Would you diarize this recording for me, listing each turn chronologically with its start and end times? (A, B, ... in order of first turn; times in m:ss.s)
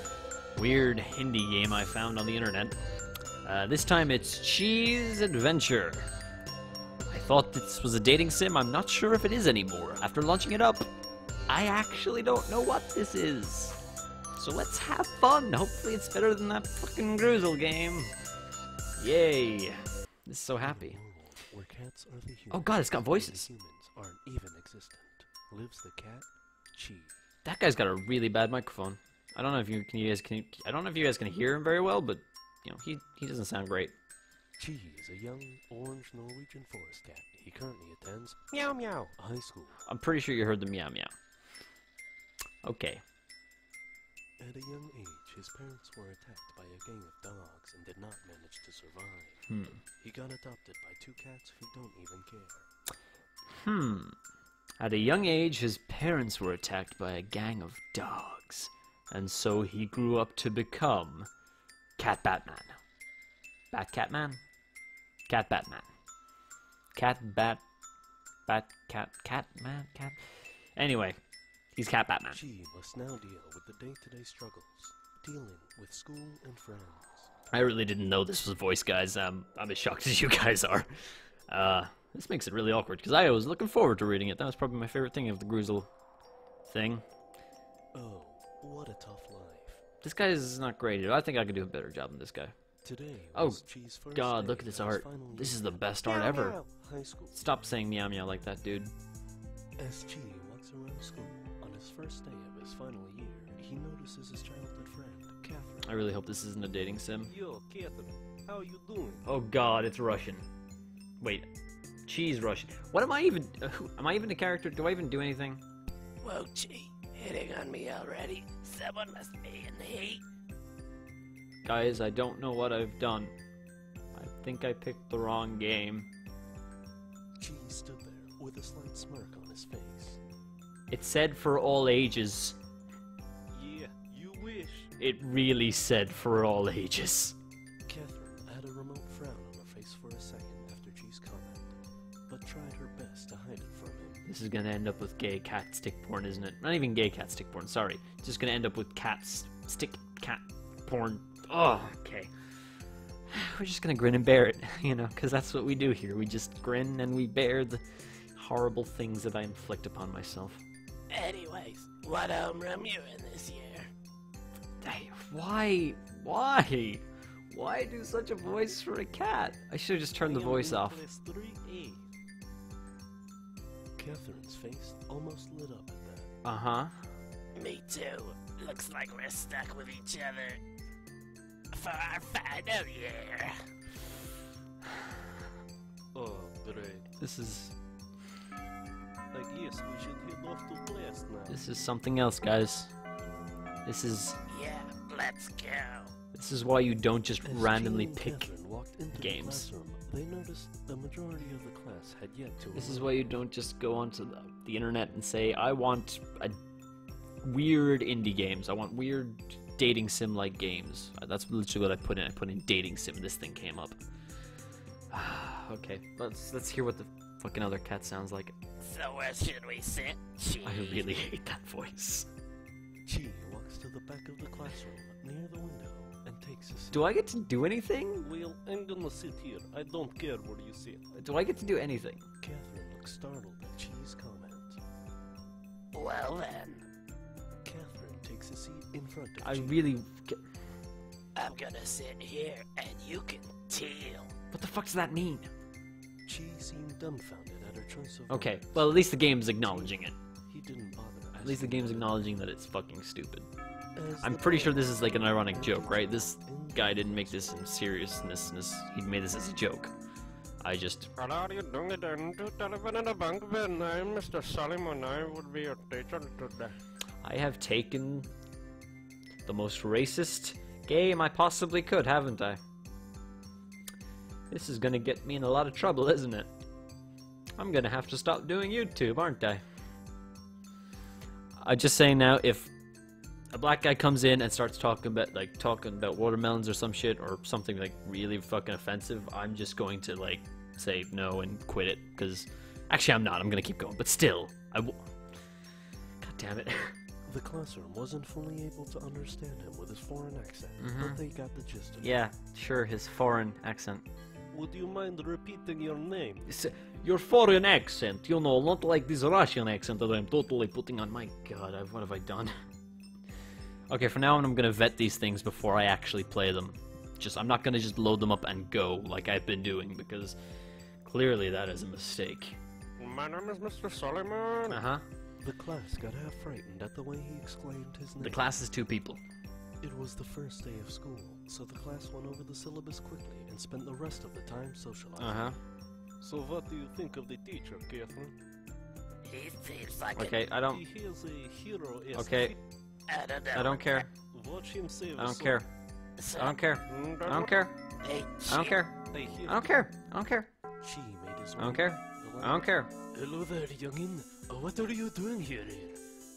0:00.5-0:02.8 A
0:03.4-0:06.1 A
0:07.1-0:10.9 A
0:11.5-0:13.8 A
0:14.4-0:18.1 A
0:19.0-0:21.0 A
0:20.6-0:27.2 B
0:22.5-0:23.5 A
0:27.4-0:33.9 A
0:34.6-0:39.8 B
0:38.5-0:39.1 C
0:39.8-0:41.1 A
0:42.6-0:43.0 A
0:44.4-0:52.7 B
0:49.5-0:49.8 A
0:53.5-0:54.1 A
0:54.8-1:01.3 A
1:02.0-1:02.8 A
1:03.7-1:04.4 A
1:05.3-1:05.9 A
1:06.9-1:07.6 A
1:08.5-1:11.2 A
1:11.7-1:12.4 A
1:12.3-1:17.3 B
1:17.5-1:25.9 A
1:26.6-1:27.0 A
1:27.9-1:29.8 B
1:30.0-1:32.5 A
1:32.8-1:37.4 B
1:33.3-1:36.6 A
1:37.3-1:38.9 A
1:39.8-1:45.9 B
1:45.8-1:47.3 A
1:47.2-1:49.2 B
1:49.2-1:50.4 A
1:51.2-1:51.5 A
1:52.0-1:55.6 A
1:56.2-2:00.2 C
2:01.6-2:03.3 A
2:04.1-2:06.1 A
2:07.4-2:10.2 B
2:10.9-2:12.6 A
2:13.5-2:14.9 B
2:15.0-2:17.4 A
2:17.8-2:24.2 B
2:24.2-2:32.3 A
2:33.3-2:40.6 A
2:41.1-2:43.9 C
2:44.8-2:51.0 A
2:50.2-2:52.0 B
2:54.0-2:56.3 B
2:56.4-2:57.0 A
2:57.5-3:00.6 C
3:01.7-3:03.7 C
3:06.1-3:07.1 B
3:07.2-3:07.8 A
3:09.3-3:11.6 B
3:11.5-3:12.9 A
3:13.8-3:14.4 A
3:14.5-3:16.1 C
3:16.3-3:18.5 A
3:17.4-3:23.2 B
3:19.1-3:19.7 A
3:22.7-3:26.6 A
3:27.4-3:34.0 A
3:35.1-3:38.6 A
3:38.8-3:41.1 C
3:40.6-3:42.3 A
3:43.0-3:47.1 B
3:46.9-3:48.3 A
3:48.2-3:51.1 B
3:51.1-3:52.2 A
3:52.4-3:54.8 B
3:55.9-3:56.9 C
3:57.6-3:59.8 B
3:59.4-4:00.4 A
4:01.3-4:04.3 C
4:04.5-4:05.5 A
4:06.2-4:09.1 B
4:08.3-4:10.2 A
4:09.6-4:12.4 B
4:11.3-4:13.5 A
4:14.0-4:17.6 B
4:14.2-4:19.9 A
4:20.6-4:21.1 A
4:21.2-4:26.8 D
4:27.2-4:28.3 A
4:29.4-4:32.6 A
4:34.5-4:36.5 A
4:37.6-4:39.6 A
4:41.6-4:42.7 A
4:43.5-4:55.5 A
4:56.2-4:57.0 A
4:57.3-5:02.1 B
5:00.8-5:01.2 A
5:02.0-5:04.0 A
5:04.5-5:06.5 B
5:06.4-5:12.6 A
5:13.9-5:20.4 A
5:21.0-5:22.6 A
5:23.0-5:24.8 D
5:24.7-5:25.0 A
5:25.4-5:28.4 B
5:28.2-5:29.2 A
5:29.8-5:35.6 B
5:35.2-5:35.6 A
5:36.2-5:38.3 B
5:39.2-5:40.3 C
5:40.1-5:40.8 A
5:40.6-5:42.6 B
5:42.1-5:42.5 A
5:43.1-5:44.1 C
5:43.5-5:44.1 A
5:44.3-5:45.6 B
5:45.2-5:45.7 A
5:46.2-5:46.6 C
5:46.3-5:47.8 A
5:46.9-5:47.5 D
5:48.0-5:48.8 C
5:48.5-5:50.5 A
5:49.1-5:49.8 B
5:50.8-5:56.0 B
5:51.6-5:52.9 A